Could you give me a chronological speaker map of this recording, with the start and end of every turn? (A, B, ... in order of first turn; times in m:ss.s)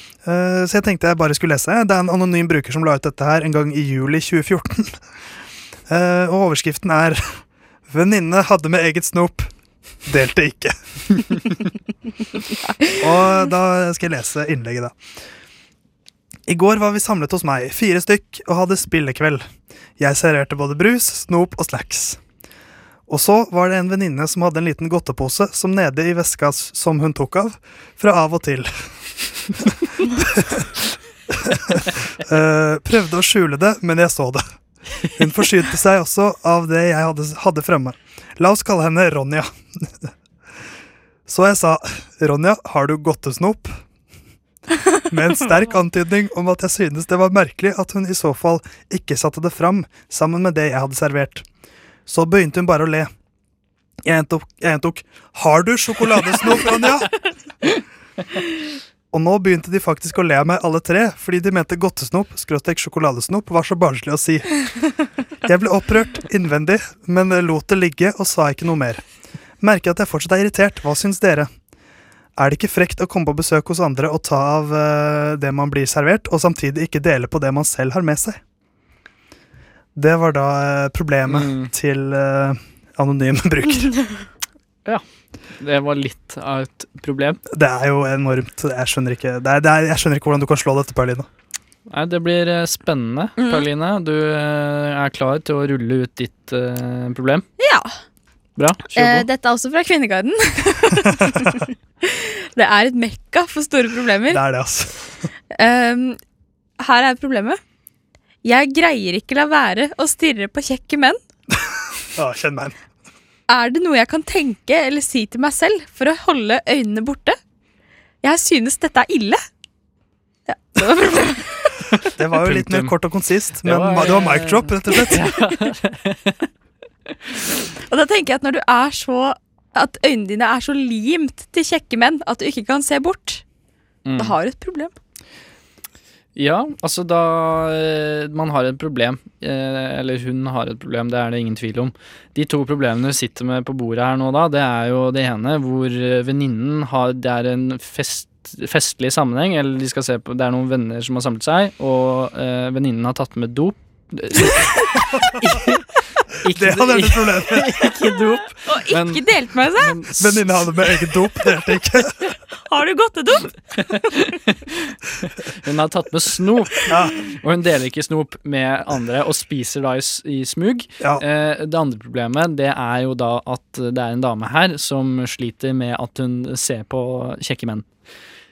0:00.2-0:04.9 A
0:05.9-0:07.2 A
0:07.9-0:09.5 A
0:10.1-0:11.6 A
0:12.9-0:14.9 A
0:16.5-0:19.4 A
0:20.0-0:22.2 A
0:23.1-0:28.7 A
0:30.0-0:30.7 A
0:31.3-0:34.4 A
0:35.0-0:40.1 A
0:41.3-0:43.7 A
0:45.0-0:51.4 A
0:52.1-0:53.1 A
0:54.0-0:57.2 A
0:59.1-1:04.7 A
1:05.4-1:09.0 A
1:09.6-1:11.5 A
1:12.4-1:18.4 A
1:20.0-1:24.1 A
1:21.2-1:21.7 B
1:25.6-1:27.4 B
1:27.5-1:31.3 A
1:31.9-1:37.4 B
1:37.6-1:37.9 C
1:38.6-1:39.3 B
1:39.0-1:41.1 C
1:42.5-1:44.3 C
1:44.3-1:45.0 A
1:45.6-1:46.2 C
1:46.8-1:47.6 C
1:48.4-1:51.2 C
1:52.2-1:52.7 A
1:53.5-1:57.4 C
1:58.2-1:59.4 C
2:00.5-2:01.4 C
2:02.0-2:05.4 A
2:02.3-2:06.4 B
2:07.9-2:13.4 C
2:14.0-2:14.4 B
2:14.2-2:14.9 C
2:16.4-2:35.8 B
2:36.4-2:40.6 B
2:36.5-2:37.8 A
2:38.7-2:39.8 C
2:40.2-2:42.1 A
2:42.7-2:43.1 C
2:43.7-2:44.7 B
2:45.6-2:57.8 B
2:46.9-2:47.2 A